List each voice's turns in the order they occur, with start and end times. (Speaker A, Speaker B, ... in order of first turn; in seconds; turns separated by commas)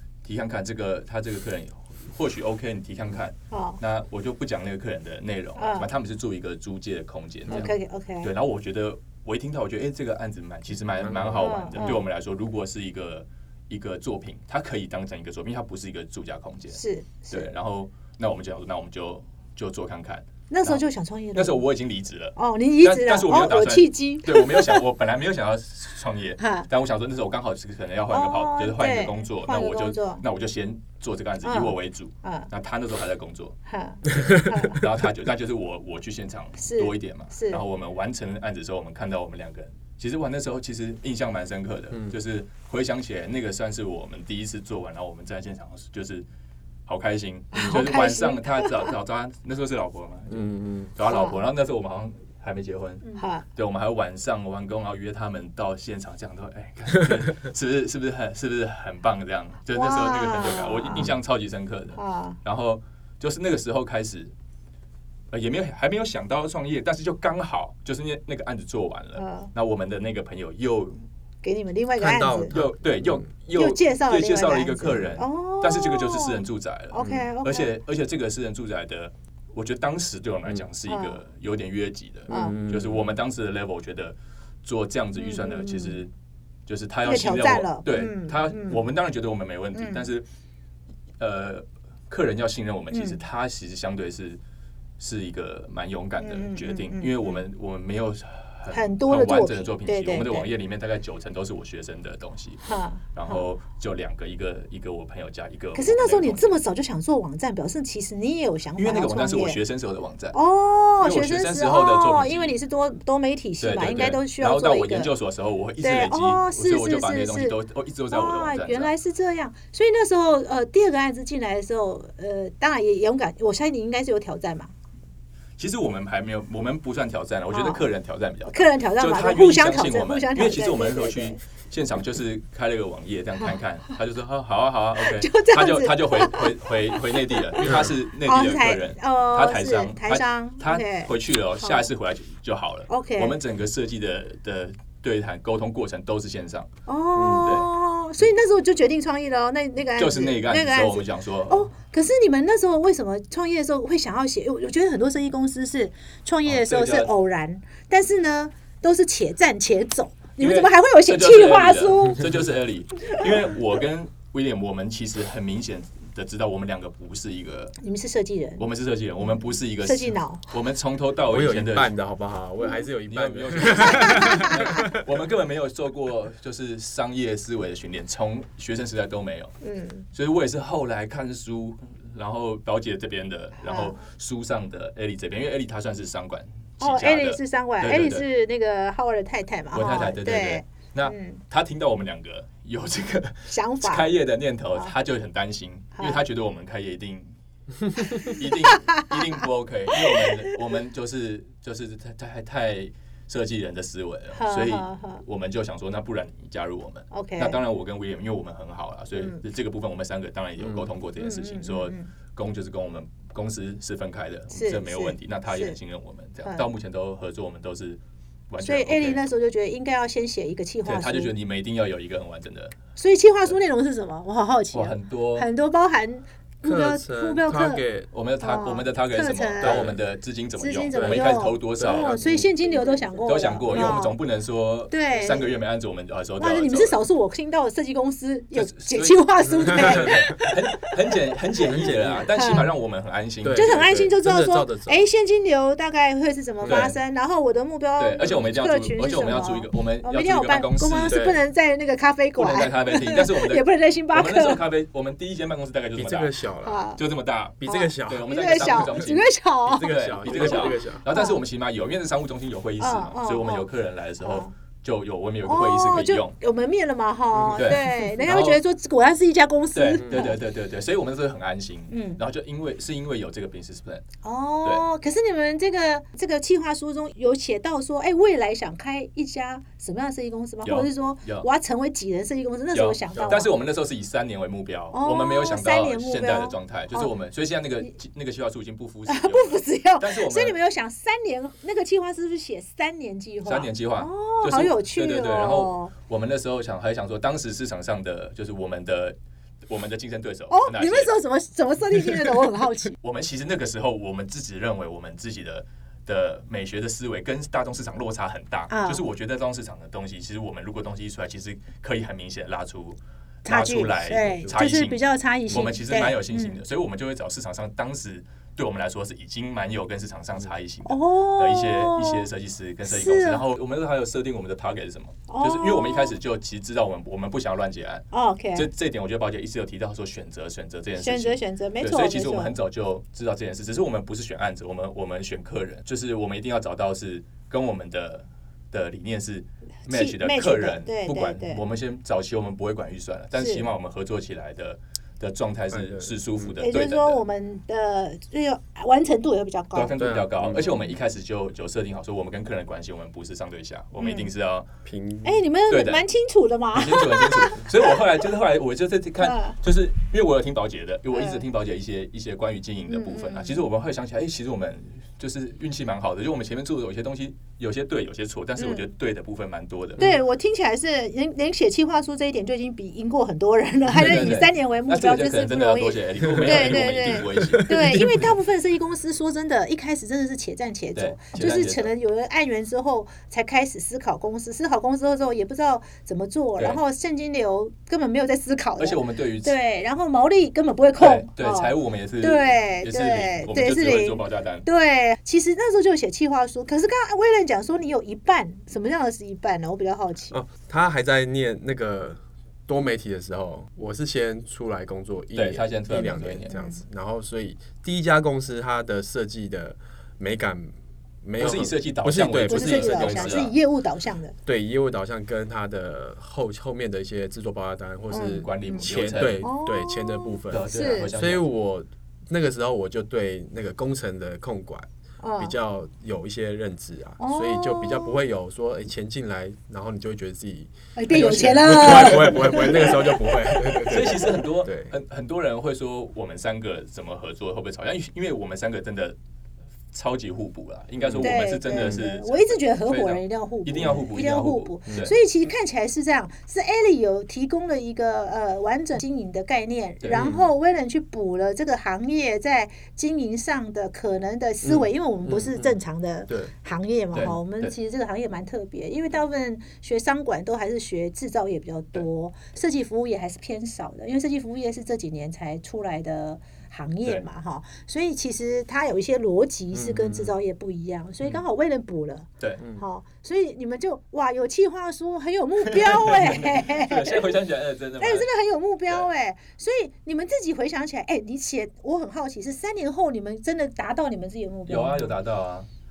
Speaker A: 0.2-33.5, Speaker B: 3.5-3.8, Speaker B: 5.6-5.9, Speaker B: 7.5-8.3, Speaker C: 11.0-12.0, Speaker B: 11.4-12.0, Speaker B: 16.8-17.5, Speaker B: 20.5-21.6, Speaker B: 22.4-24.8, Speaker B: 26.4-26.7, Speaker B: 28.1-30.2, Speaker B: 31.4-32.5, Speaker B: 33.7-34.8, Speaker A: 34.1-46.2, Speaker B: 36.6-37.6, Speaker A: 46.9-64.3, Speaker B: 47.5-48.9, Speaker C: 50.3-50.9, Speaker B: 51.0-51.4, Speaker B: 53.1-53.4, Speaker B: 59.7-61.1, Speaker B: 62.0-62.4, Speaker A: 65.3-71.0, Speaker B: 69.2-69.5, Speaker B: 71.4-72.5, Speaker C: 72.0-73.2, Speaker A: 72.5-86.1, Speaker B: 73.5-77.7, Speaker C: 77.0-77.2, Speaker B: 80.9-81.2, Speaker C: 82.3-83.1, Speaker B: 82.3-82.6, Speaker B: 85.2-86.0, Speaker A: 86.7-90.2, Speaker B: 87.0-88.8, Speaker B: 89.8-90.0, Speaker A: 91.2-94.4, Speaker B: 92.9-93.2, Speaker A: 95.0-106.6, Speaker B: 96.2-97.4, Speaker B: 98.7-100.5, Speaker B: 102.6-103.5, Speaker B: 105.8-109.6, Speaker A: 108.8-110.4, Speaker B: 110.3-115.1, Speaker A: 111.0-112.5, Speaker A: 113.6-118.9, Speaker B: 115.8-117.5, Speaker B: 118.1-124.7, Speaker A: 125.6-146.7, Speaker B: 127.5-127.9, Speaker B: 128.5-131.4, Speaker B: 135.0-141.9, Speaker B: 142.9-143.4, Speaker B: 146.9-162.2, Speaker C: 147.2-147.5, Speaker A: 147.2-147.7, Speaker A: 150.0-151.7, Speaker A: 156.4-157.1, Speaker A: 160.4-167.8, Speaker B: 167.8-168.6, Speaker A: 168.6-171.9, Speaker B: 169.3-170.4, Speaker C: 171.2-175.0, Speaker A: 173.1-179.5, Speaker B: 173.8-174.7, Speaker B: 179.6-180.0, Speaker A: 180.1-188.2, Speaker B: 183.6-184.0, Speaker B: 186.8-191.4, Speaker A: 189.7-197.3, Speaker B: 193.5-194.1, Speaker B: 196.0-196.2, Speaker A: 198.1-219.2, Speaker B: 198.1-199.1, Speaker B: 200.1-200.4, Speaker B: 204.3-205.2, Speaker B: 207.1-207.6, Speaker C: 210.6-210.9, Speaker B: 211.2-212.1, Speaker B: 214.5-215.8, Speaker B: 216.4-216.7, Speaker B: 218.6-221.3, Speaker A: 220.8-222.8, Speaker B: 223.0-227.8, Speaker A: 224.7-225.5, Speaker C: 226.6-228.1, Speaker A: 228.1-232.2, Speaker B: 228.4-229.9, Speaker C: 229.6-230.0, Speaker B: 230.6-234.2, Speaker C: 230.9-232.9, Speaker A: 233.2-237.0, Speaker C: 233.7-234.0, Speaker B: 234.9-235.5, Speaker B: 236.4-240.9, Speaker A: 238.5-244.0, Speaker C: 239.6-240.2, Speaker C: 241.6-242.3, Speaker B: 242.3-242.7, Speaker C: 243.4-245.1, Speaker B: 243.5-254.6, Speaker C: 246.6-246.9, Speaker A: 246.6-247.0, Speaker A: 248.0-251.3, Speaker C: 251.1-251.4, Speaker A: 252.4-256.4, Speaker C: 255.9-256.8, Speaker B: 256.6-257.0, Speaker A: 256.9-266.4, Speaker C: 257.6-259.1, Speaker B: 257.6-261.4, Speaker C: 259.6-261.0, Speaker B: 262.8-263.7, Speaker B: 264.2-264.5, Speaker B: 265.4-270.4, Speaker C: 267.3-267.8, Speaker A: 267.5-268.6, Speaker A: 269.8-274.1, Speaker C: 270.0-270.3, Speaker B: 271.9-272.2, Speaker B: 274.2-283.5, Speaker A: 280.6-281.5, Speaker A: 282.7-290.6, Speaker C: 283.1-283.4, Speaker B: 284.9-287.1, Speaker B: 289.1-295.9, Speaker A: 293.4-299.2, Speaker A: 299.7-301.1, Speaker B: 300.5-302.9, Speaker A: 303.0-347.2, Speaker B: 308.7-309.0, Speaker B: 313.4-316.6, Speaker B: 320.9-322.3, Speaker B: 322.9-323.4, Speaker B: 325.3-326.1, Speaker B: 328.1-328.7, Speaker B: 331.0-332.6, Speaker B: 339.9-341.6, Speaker B: 343.4-343.7, Speaker C: 345.7-346.5, Speaker B: 346.6-349.9, Speaker A: 349.7-354.7, Speaker C: 350.0-350.6, Speaker B: 350.5-350.9, Speaker B: 354.0-354.3, Speaker C: 354.8-355.4, Speaker B: 355.2-357.7, Speaker A: 355.7-356.1, Speaker A: 356.7-370.1, Speaker B: 359.2-359.6, Speaker B: 361.1-361.4, Speaker B: 362.9-363.6, Speaker B: 368.6-368.9, Speaker B: 370.0-400.4, Speaker A: 373.9-378.0, Speaker C: 376.3-376.8, Speaker C: 377.3-378.3, Speaker A: 380.9-381.9, Speaker A: 388.8-389.5, Speaker A: 391.0-394.7, Speaker C: 400.3-413.5, Speaker A: 405.3-406.5, Speaker B: 406.5-406.8, Speaker A: 411.4-413.5, Speaker B: 412.4-414.3, Speaker C: 414.4-424.9, Speaker B: 418.1-418.9, Speaker A: 418.3-419.5, Speaker B: 419.4-421.1, Speaker A: 420.5-421.5, Speaker B: 425.2-425.5, Speaker C: 425.4-434.9, Speaker B: 427.2-428.2, Speaker B: 431.0-433.9, Speaker A: 431.2-432.4, Speaker A: 433.8-439.2, Speaker A: 439.9-445.1, Speaker C: 441.0-442.0, Speaker B: 441.2-477.3, Speaker A: 450.0-450.4, Speaker C: 450.1-450.4, Speaker C: 454.6-455.6, Speaker A: 457.1-457.7, Speaker C: 469.7-470.3, Speaker A: 475.6-478.3, Speaker B: 478.0-485.1, Speaker A: 484.7-485.7